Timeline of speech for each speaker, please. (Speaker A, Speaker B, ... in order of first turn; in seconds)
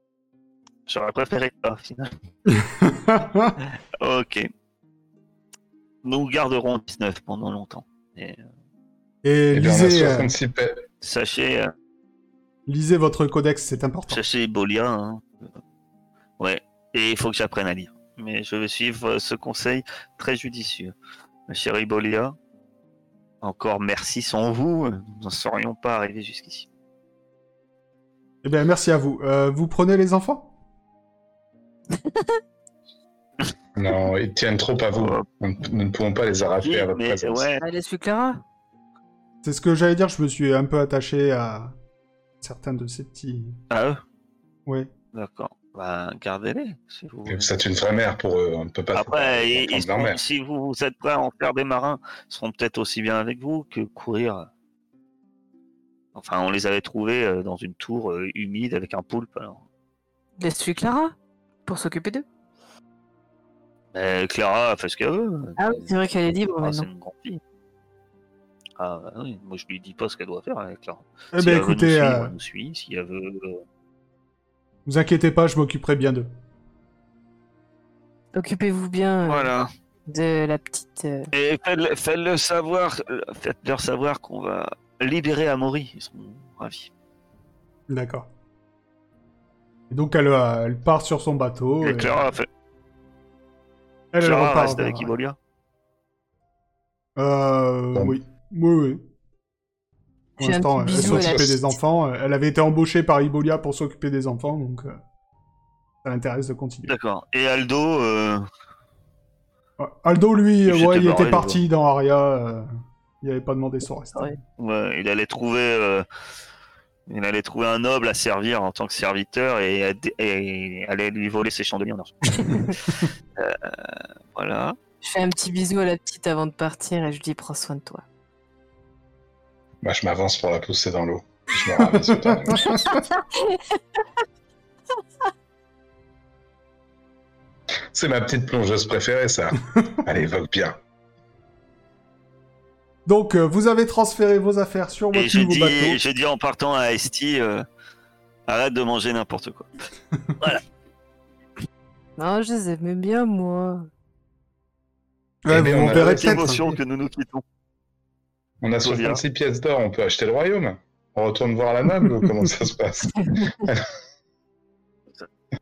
Speaker A: 0.9-2.1, 4.0-4.5, 6.0-8.4, 11.0-11.7, 14.1-15.5, 16.4-20.9, 21.5-22.4, 23.4-26.7, 34.9-35.2, 36.6-37.6, 43.7-44.0, 45.1-47.5, 48.9-54.5, 56.1-59.6, 63.9-65.9, 66.6-67.4, 68.8-73.6, 79.3-79.7, 81.3-86.9, 91.8-92.5, 94.2-95.4, 106.9-108.5, 110.7-111.6, 114.6-116.1, 117.1-124.8, 145.1-147.7, 148.5-149.7, 155.7-157.4, 158.8-159.2
Speaker B: 2.5-3.6, 9.2-10.3, 12.7-14.2, 28.4-30.5, 39.4-41.7, 42.4-43.6, 71.3-72.3, 74.9-76.3, 87.9-88.3, 89.9-92.2, 94.1-95.1, 97.2-99.0, 100.4-105.0, 106.0-107.0, 109.8-112.7, 113.2-114.4, 131.8-133.0, 143.1-146.0, 155.4-156.7
Speaker C: 9.5-10.8, 33.8-37.5, 47.3-50.2, 101.0-101.6, 129.8-132.8, 137.9-140.8, 155.5-156.6, 158.6-163.9
Speaker D: 32.0-32.4, 37.6-38.4, 60.4-61.1, 61.7-62.2, 65.6-66.9, 78.3-79.5, 80.1-81.3, 100.4-101.6, 122.5-122.8, 125.0-128.0, 132.6-133.8, 152.2-153.9